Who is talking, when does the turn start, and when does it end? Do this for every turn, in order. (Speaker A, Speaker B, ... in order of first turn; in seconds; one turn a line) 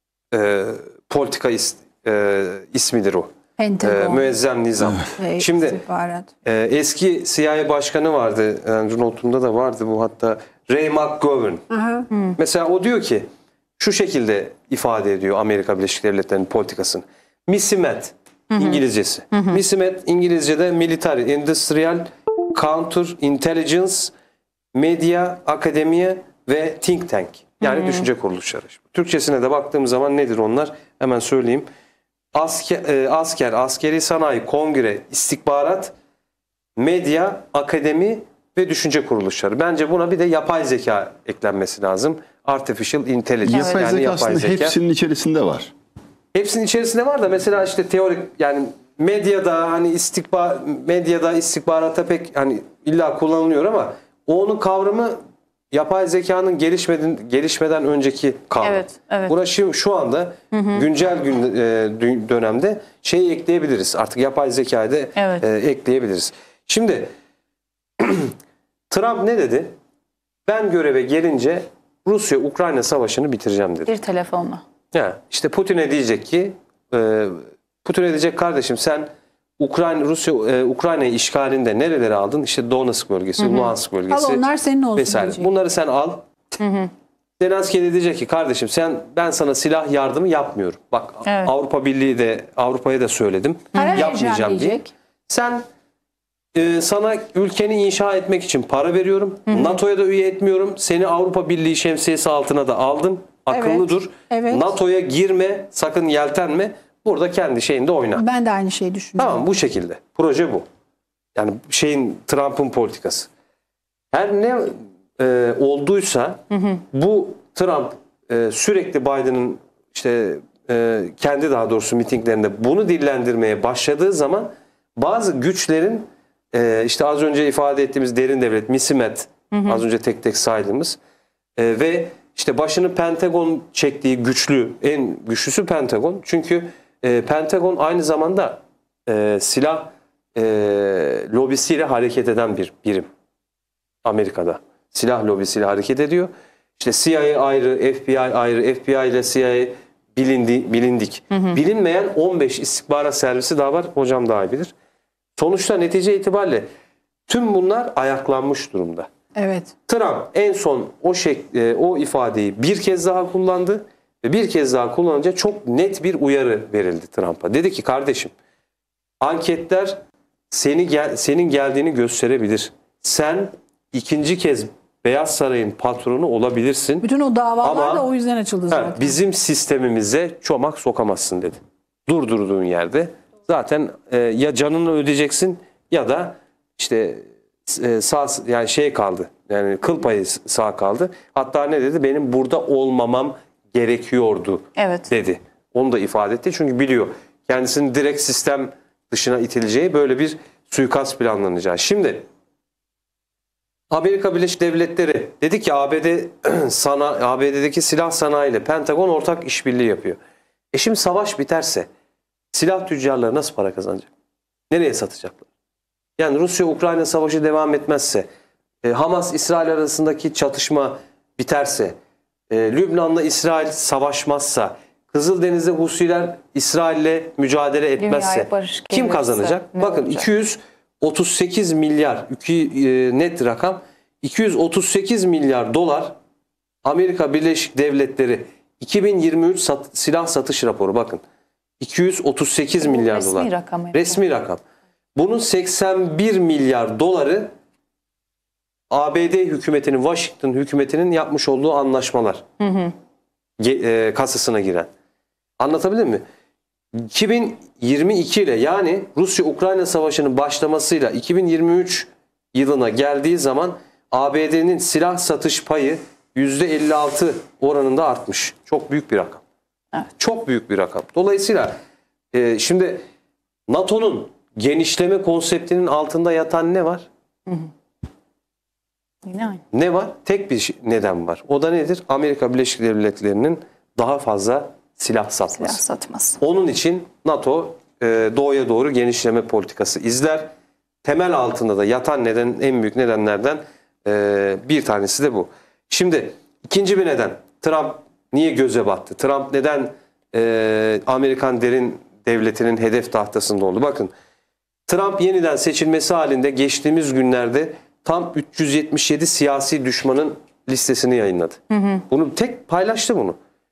Speaker A: 0.3-3.3
Speaker B: 3.6-4.3
Speaker A: 3.8-5.8
Speaker B: 5.1-6.3
Speaker A: 6.4-11.6
Speaker B: 11.7-12.1
Speaker C: 12.1-12.3
Speaker A: 12.3-13.2
Speaker A: 13.8-24.1
Speaker C: 18.5-18.8
Speaker C: 19.3-19.6
Speaker A: 24.7-31.7
Speaker C: 27.6-28.1
Speaker A: 32.3-35.9
Speaker A: 36.8-44.8
Speaker D: 43.5-45.7
Speaker C: 43.5-43.8
Speaker A: 46.3-55.2
Speaker A: 55.7-67.1
Speaker C: 58.6-59.3
Speaker C: 60.5-60.9
Speaker C: 65.2-65.4
Speaker A: 68.0-68.3
Speaker A: 68.9-69.7
Speaker A: 70.5-73.9
Speaker C: 73.9-74.6
Speaker A: 74.9-79.1
Speaker A: 79.6-86.2
Speaker C: 83.4-83.7
Speaker B: 84.1-85.5
Speaker C: 86.6-86.9
Speaker A: 87.4-95.6
Speaker C: 91.2-91.5
Speaker C: 93.7-94.1
Speaker B: 93.7-94.9
Speaker A: 96.5-108.2
Speaker C: 99.5-99.8
Speaker B: 103.5-104.7
Speaker B: 108.2-109.4
Speaker A: 109.2-110.6
Speaker A: 111.3-113.3
Speaker A: 114.1-131.0
Speaker C: 129.5-129.8
Speaker A: 131.6-143.1
Speaker A: 144.0-154.7
Speaker A: 155.4-156.7
Speaker A: 157.3-159.1
Speaker B: 159.3-159.7
Speaker A: 159.9-168.3
Speaker A: 169.2-170.0
Speaker A: 170.5-177.1
Speaker B: 177.0-179.1
Speaker A: 177.6-178.1
Speaker A: 178.7-202.2
Speaker C: 194.8-195.1
Speaker A: 203.9-210.2
Speaker A: 210.7-211.9
Speaker A: 212.5-214.1
Speaker A: 214.7-215.5
Speaker A: 216.2-218.3
Speaker A: 218.8-221.9
Speaker A: 222.5-236.1
Speaker C: 228.0-230.2
Speaker A: 236.8-241.2
Speaker A: 241.8-244.6
Speaker C: 242.8-244.2
Speaker A: 245.2-247.5
Speaker A: 248.9-252.4
Speaker C: 252.6-252.9
Speaker A: 253.6-254.9
Speaker A: 255.6-256.2
Speaker A: 256.9-269.4
Speaker A: 270.2-271.7
Speaker A: 272.3-273.0
Speaker A: 273.7-277.1
Speaker C: 279.2-279.6
Speaker A: 279.7-285.8
Speaker C: 285.5-286.4
Speaker A: 286.4-290.5
Speaker A: 291.0-304.1
Speaker A: 304.9-313.4
Speaker C: 311.7-312.0